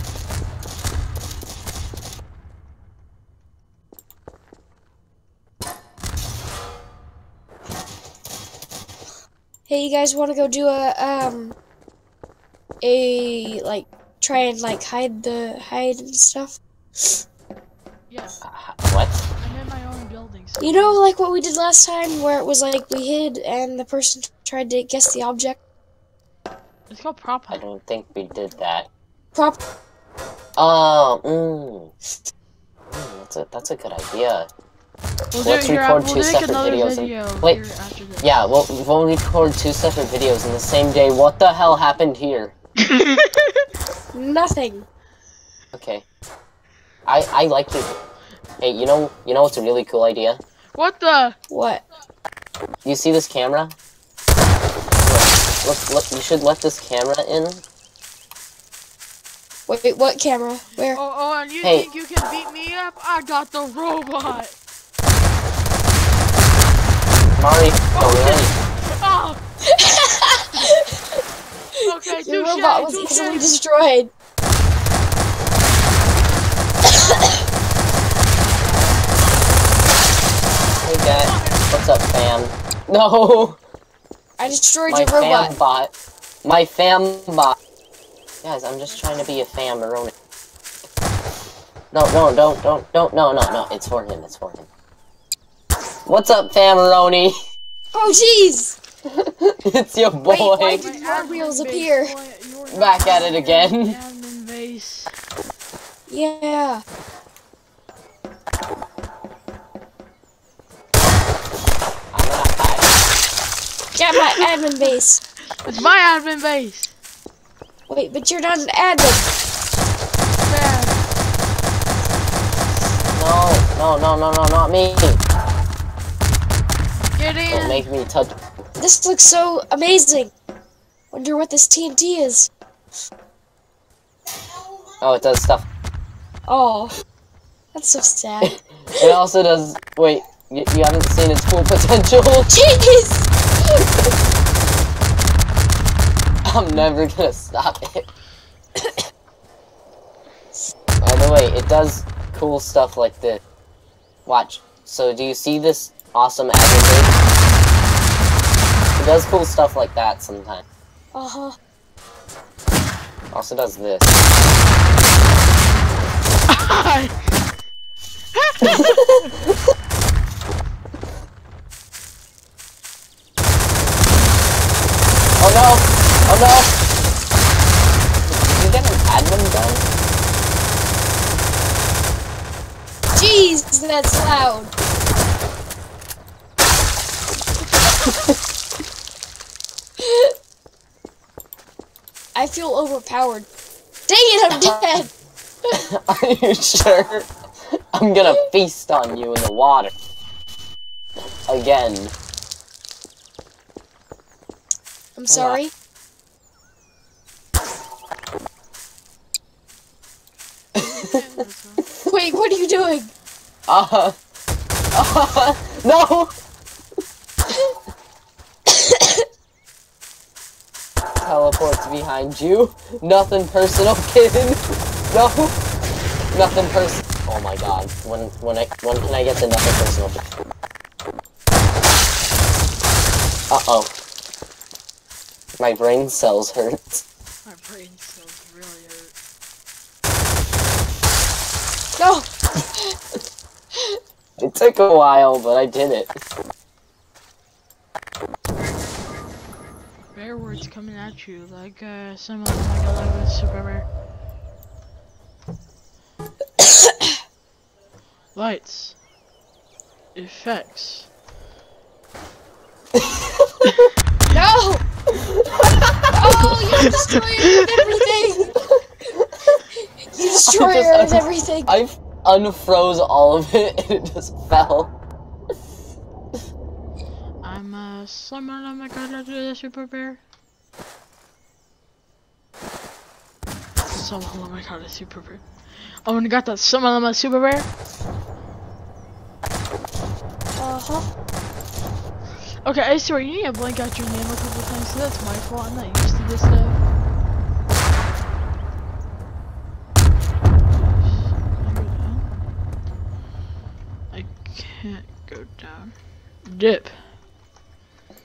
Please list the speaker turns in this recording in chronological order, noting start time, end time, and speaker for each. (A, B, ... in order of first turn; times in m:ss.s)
0:09.7-0:11.6 A
0:12.8-0:16.6 A
0:18.1-0:18.4 B
0:18.4-0:19.2 C
0:19.4-0:21.0 B
0:20.6-0:25.6 A
0:26.9-0:27.6 B
0:27.5-0:28.9 C
0:29.3-0:29.6 A
0:30.6-0:31.9 C
0:32.9-0:34.5 C
0:35.3-0:38.4 B
0:35.4-0:37.6 C
0:38.2-0:42.5 C
0:42.8-0:43.7 B
0:44.1-0:44.9 A
0:45.7-0:46.0 C
0:47.1-0:48.0 C
0:48.6-0:50.4 C
0:50.7-0:51.4 B
0:51.5-0:51.8 A
0:52.8-0:53.8 C
0:55.0-0:57.6 C
0:59.7-1:01.0 A
1:00.9-1:04.5 B
1:01.6-1:01.9 C
1:07.4-1:08.5 C
1:08.0-1:09.4 B
1:09.7-1:11.2 A
1:11.8-1:14.1 A
1:11.8-1:13.6 B
1:17.1-1:17.4 A
1:20.8-1:23.6 C
1:20.8-1:21.9 B
1:24.4-1:25.5 A
1:24.9-1:25.9 C
1:26.4-1:27.6 C
1:28.4-1:30.1 C
1:28.9-1:29.4 B
1:31.9-1:34.7 C
1:36.1-1:37.4 C
1:37.9-1:38.8 A
1:39.1-1:40.9 C
1:40.3-1:42.2 A
1:40.7-1:45.1 B
1:42.7-1:44.0 C
1:46.1-1:46.8 A
1:52.1-1:53.0 C
1:54.0-1:55.2 A
1:55.6-1:56.9 B
1:57.9-1:59.2 A
2:00.4-2:01.0 B
2:03.1-2:05.2 C
2:07.2-2:07.9 B
2:07.5-2:08.4 C
2:08.8-2:10.3 A
2:11.1-2:12.5 A
2:15.0-2:15.7 C
2:16.5-2:17.0 A
2:17.7-2:19.2 A
2:18.4-2:22.5 C
2:22.5-2:23.8 A
2:26.4-2:28.1 C
2:31.0-2:33.4 C
2:34.3-2:37.2 C
2:39.0-2:40.6 C
2:41.1-2:41.6 A
2:43.3-2:44.2 C
2:46.5-2:47.2 B
2:48.4-2:49.3 B
2:48.6-2:49.3 C
2:55.4-2:56.8 C
2:58.3-2:59.9 C
3:03.1-3:04.7 A
3:10.0-3:10.4 A
3:12.4-3:13.5 A
3:14.1-3:15.1 A
3:14.5-3:14.8 C
3:15.7-3:19.9 C
3:21.5-3:22.1 C
3:25.2-3:25.7 A
3:25.3-3:25.6 C
3:30.8-3:31.9 B
3:32.1-3:33.1 A
3:33.7-3:34.2 C
3:34.9-3:36.3 C
3:38.7-3:39.3 A
3:41.2-3:45.6 C
3:46.3-3:50.3 C
3:53.5-3:53.9 C
3:55.6-3:57.0 C
3:57.4-3:59.1 B
4:02.0-4:03.0 A
4:03.7-4:04.0 A
4:04.4-4:06.2 C
4:10.1-4:13.9 B
4:16.6-4:17.1 A
4:18.4-4:19.0 B
4:20.2-4:21.1 B
4:23.0-4:23.9 C
4:24.3-4:24.8 A
4:26.2-4:28.6 A
4:26.8-4:27.8 B
4:30.1-4:31.7 A
4:30.2-4:34.9 C
4:37.4-4:40.2 B
4:43.9-4:45.4 B
4:46.0-4:47.7 B
4:50.6-4:51.1 A
4:52.6-4:56.8 B
5:00.7-5:02.3 B
5:04.1-5:05.9 B
5:06.5-5:06.9 B